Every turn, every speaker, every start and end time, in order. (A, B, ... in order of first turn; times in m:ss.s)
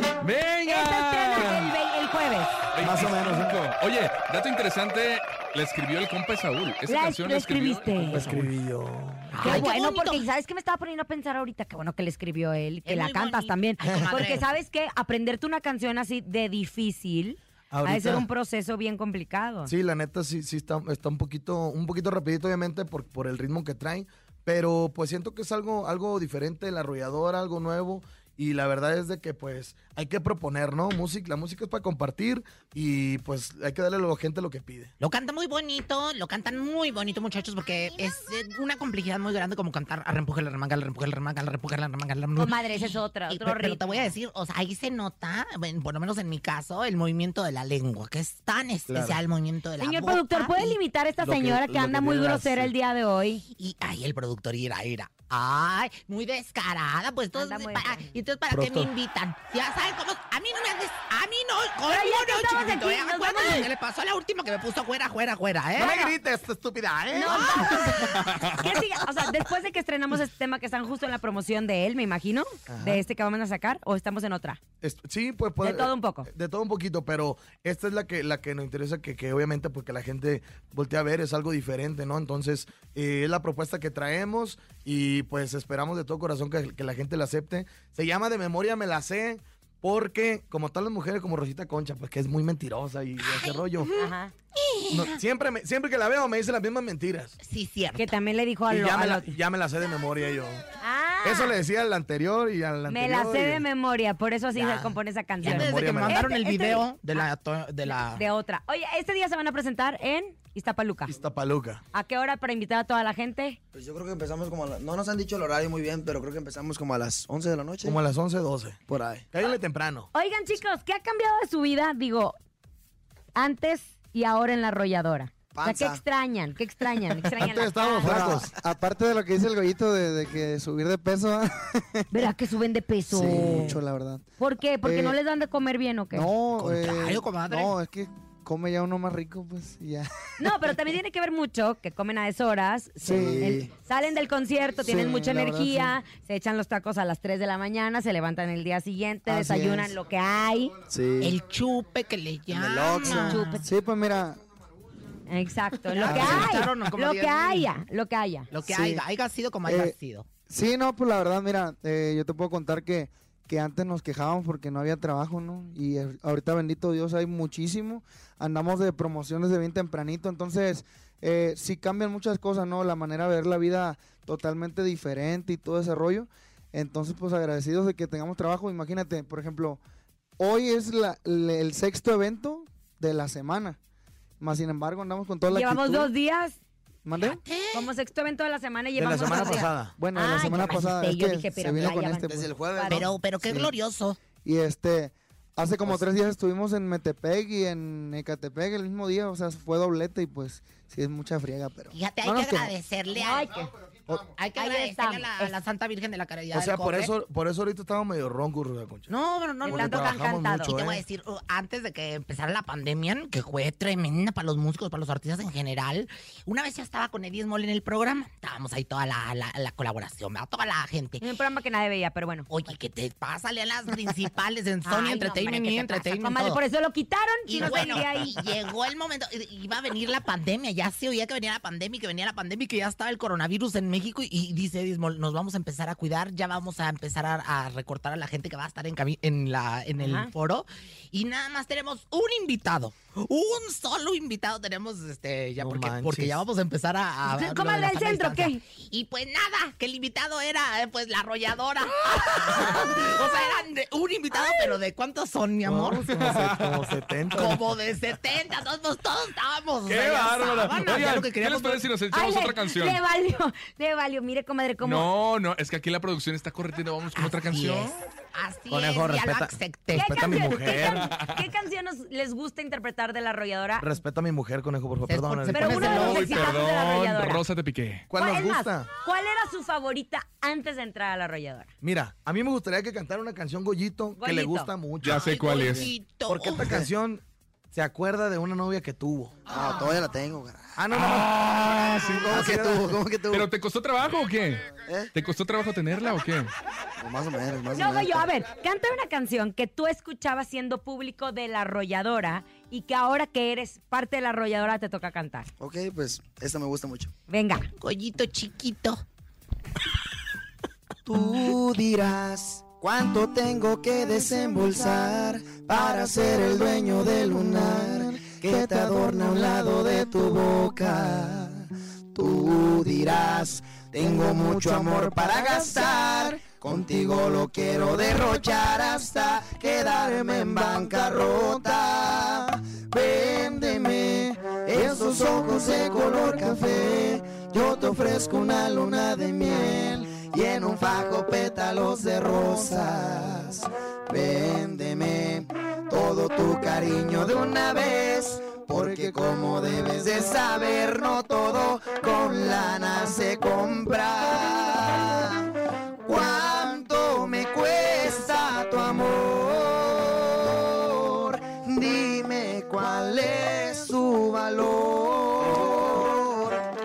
0:00.2-0:01.7 A
0:00.7-0:02.6 B
0:02.8-0:08.6 A
0:02.8-0:03.6 C
0:06.9-0:08.3 B
0:08.1-0:09.7 C
0:09.3-0:10.2 D
0:09.4-0:19.7 B
0:12.8-0:14.4 D
0:13.9-0:14.3 C
0:17.7-0:18.3 C
0:19.7-0:34.9 C
0:35.0-0:50.8 D
0:42.4-0:44.1 B
0:48.9-0:49.2 C
0:49.8-0:53.4 B
0:51.2-0:52.7 C
0:53.6-1:06.0 D
0:57.3-0:58.1 B
0:58.5-0:58.9 C
1:01.9-1:03.7 B
1:05.8-1:08.3 C
1:05.8-1:06.1 B
1:07.1-1:14.6 B
1:07.3-1:08.0 D
1:12.7-1:13.0 C
1:14.8-1:33.9 C
1:15.6-1:16.3 B
1:33.2-1:35.2 D
1:34.0-1:34.3 B
1:34.9-1:37.4 C
1:37.4-1:38.1 D
1:38.0-1:39.4 B
1:38.7-1:40.6 C
1:40.8-1:41.6 B
1:41.2-1:43.6 C
1:42.9-1:46.9 B
1:44.6-1:48.2 D
1:45.4-1:46.3 C
1:48.1-1:51.1 B
1:51.1-1:51.8 C
1:51.9-1:53.6 B
1:53.7-1:58.0 E
1:57.8-1:58.8 C
1:58.9-1:59.3 E
1:59.3-2:00.1 C
2:00.1-2:02.4 B
2:03.4-2:08.3 B
2:05.5-2:06.0 E
2:07.4-2:08.5 C
2:08.0-2:12.0 F
2:12.1-2:13.8 B
2:13.1-2:14.2 F
2:14.4-2:16.3 B
2:14.8-2:15.2 F
2:16.1-2:20.7 F
2:16.6-2:17.7 D
2:20.4-2:30.8 B
2:23.0-2:23.6 F
2:23.1-2:23.7 E
2:24.8-2:26.0 F
2:29.3-2:30.0 F
2:30.9-2:31.4 E
2:31.2-2:33.6 D
2:32.5-2:33.4 E
2:33.0-2:34.4 F
2:33.2-2:33.7 B
2:35.3-2:38.5 B
2:35.9-2:37.7 D
2:36.0-2:36.7 F
2:38.5-2:40.3 D
2:38.6-2:39.0 F
2:39.6-2:40.0 F
2:40.5-2:59.8 F
3:00.4-3:03.8 F
3:04.4-3:06.1 F
3:05.5-3:06.6 B
3:07.0-3:07.4 F
3:07.2-3:07.9 D
3:07.7-3:13.1 B
3:09.0-3:09.9 C
3:10.0-3:12.5 F
3:12.3-3:13.1 E
3:12.9-3:14.2 D
3:13.4-3:13.7 F
3:14.4-3:22.7 F
3:21.9-3:23.5 D
3:23.1-3:23.7 B
3:24.4-3:27.1 D
3:24.6-3:25.6 B
3:26.5-3:29.1 C
3:29.1-3:41.2 D
3:29.6-3:31.0 C
3:29.7-3:30.7 B
3:41.2-3:42.5 B
3:42.5-3:46.6 D
3:44.8-3:48.3 B
3:47.5-4:16.1 D
4:00.0-4:00.3 B
4:05.6-4:06.4 C
4:07.3-4:08.6 B
4:15.6-4:17.6 C
4:16.1-4:16.8 A
4:17.3-4:21.8 D
4:19.9-4:23.0 A
4:22.1-4:25.1 B
4:24.8-4:28.0 A
4:27.2-4:30.4 D
4:28.7-4:31.1 C
4:29.9-4:33.9 B
4:31.0-4:31.4 A
4:33.8-4:36.0 C
4:35.1-4:36.6 D
4:35.5-4:37.4 B
4:35.8-4:38.1 A
4:38.1-4:38.9 C
4:38.1-4:41.7 B
4:41.8-4:49.4 C
4:44.2-4:44.7 B
4:45.0-4:45.9 A
4:45.1-4:46.7 D
4:49.5-4:50.8 E
4:50.8-4:53.0 C
4:52.2-4:53.5 E
4:53.3-4:56.5 A
4:54.9-4:55.1 E
4:57.0-4:58.3 E
4:57.7-5:05.5 B
5:05.6-5:07.1 E
5:07.3-5:07.7 B
5:07.8-5:09.0 D
5:11.1-5:55.2 E
5:56.0-6:00.3 E
6:01.1-6:06.3 E